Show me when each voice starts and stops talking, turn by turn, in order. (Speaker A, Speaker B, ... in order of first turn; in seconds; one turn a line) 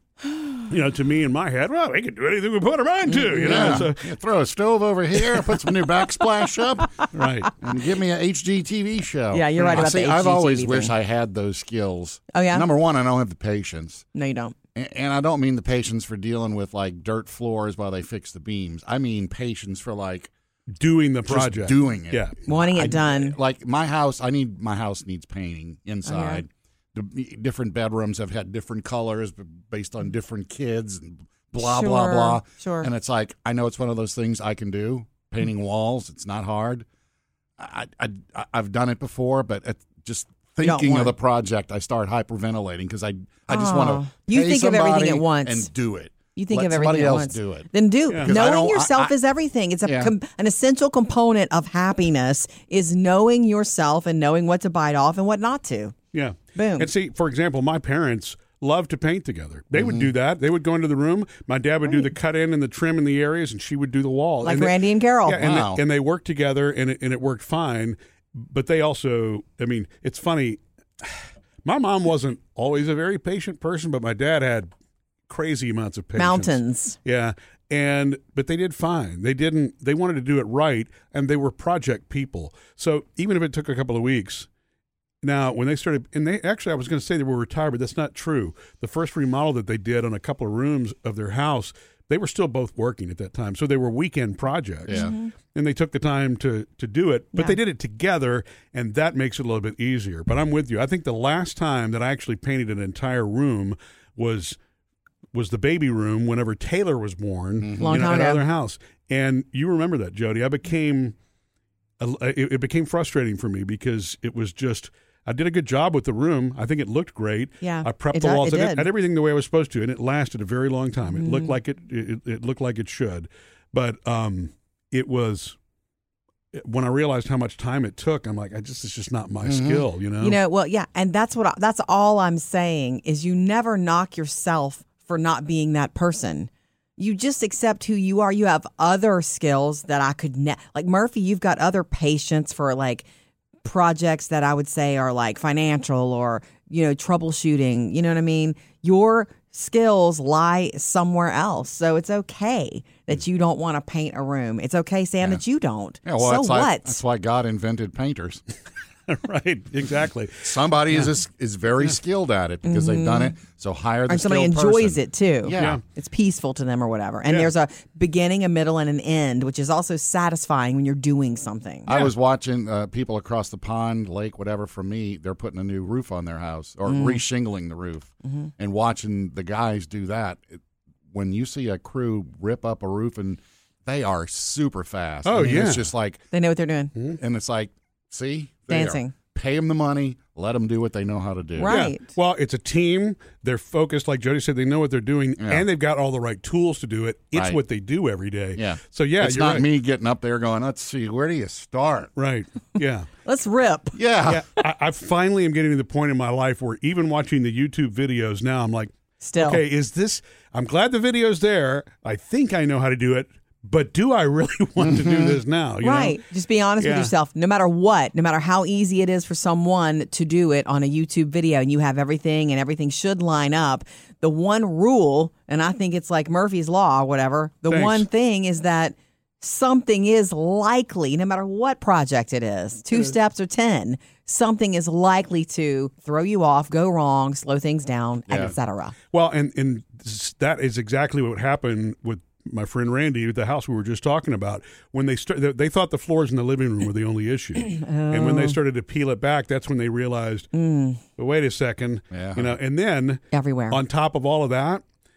Speaker A: 0.6-4.0
Speaker B: 3.1-3.9
Speaker C: 3.4-7.1
Speaker A: 7.1-7.5
Speaker C: 7.6-14.0
Speaker B: 9.3-10.9
Speaker B: 12.3-12.7
Speaker B: 14.1-14.5
Speaker C: 14.7-20.3
Speaker A: 20.8-22.4
Speaker C: 21.2-36.8
Speaker B: 22.4-23.4
Speaker B: 26.0-26.4
Speaker B: 31.6-32.9
Speaker C: 37.6-49.1
Speaker B: 40.6-41.1
Speaker B: 43.5-45.7
Speaker B: 46.3-55.9
Speaker A: 48.1-48.3
Speaker C: 49.8-50.1
Speaker A: 56.1-74.7
Speaker B: 56.5-56.9
Speaker C: 59.8-60.1
Speaker B: 64.4-65.5
Speaker C: 65.4-65.8
Speaker A: 75.3-84.5
Speaker B: 76.2-77.0
Speaker A: 85.2-104.6
Speaker B: 94.9-95.3
Speaker A: 105.3-111.1
Speaker C: 107.6-108.0
Speaker B: 107.8-108.4
Speaker A: 112.0-125.5
Speaker B: 117.6-118.9
Speaker B: 121.1-121.5
Speaker A: 126.5-130.3
Speaker C: 129.4-129.9
Speaker B: 130.2-143.0
Speaker B: 143.6-157.0
Speaker C: 156.0-158.4
Speaker A: 159.1-161.1
Speaker C: 160.4-165.8
Speaker B: 162.6-163.3
Speaker B: 164.1-171.9
Speaker A: 165.5-165.8
Speaker C: 171.8-180.6
Speaker B: 176.9-177.2
Speaker B: 178.2-178.5
Speaker C: 181.1-186.2
Speaker A: 185.2-185.9
Speaker B: 186.3-186.9
Speaker C: 187.2-191.7
Speaker B: 188.7-189.1
Speaker B: 191.6-192.1
Speaker A: 191.6-199.7
Speaker C: 195.4-195.6
Speaker C: 197.3-197.6
Speaker C: 198.6-202.1
Speaker A: 202.2-203.1
Speaker B: 203.2-204.0
Speaker C: 203.9-204.4
Speaker A: 204.2-216.2
Speaker B: 209.2-209.6
Speaker C: 214.8-215.3
Speaker B: 215.8-238.9
Speaker A: 216.8-217.1
Speaker A: 227.7-228.1
Speaker C: 238.3-238.5
Speaker A: 239.1-250.5
Speaker B: 247.6-248.6
Speaker B: 250.5-251.0
Speaker A: 251.2-254.8
Speaker C: 252.1-252.5
Speaker B: 253.3-253.8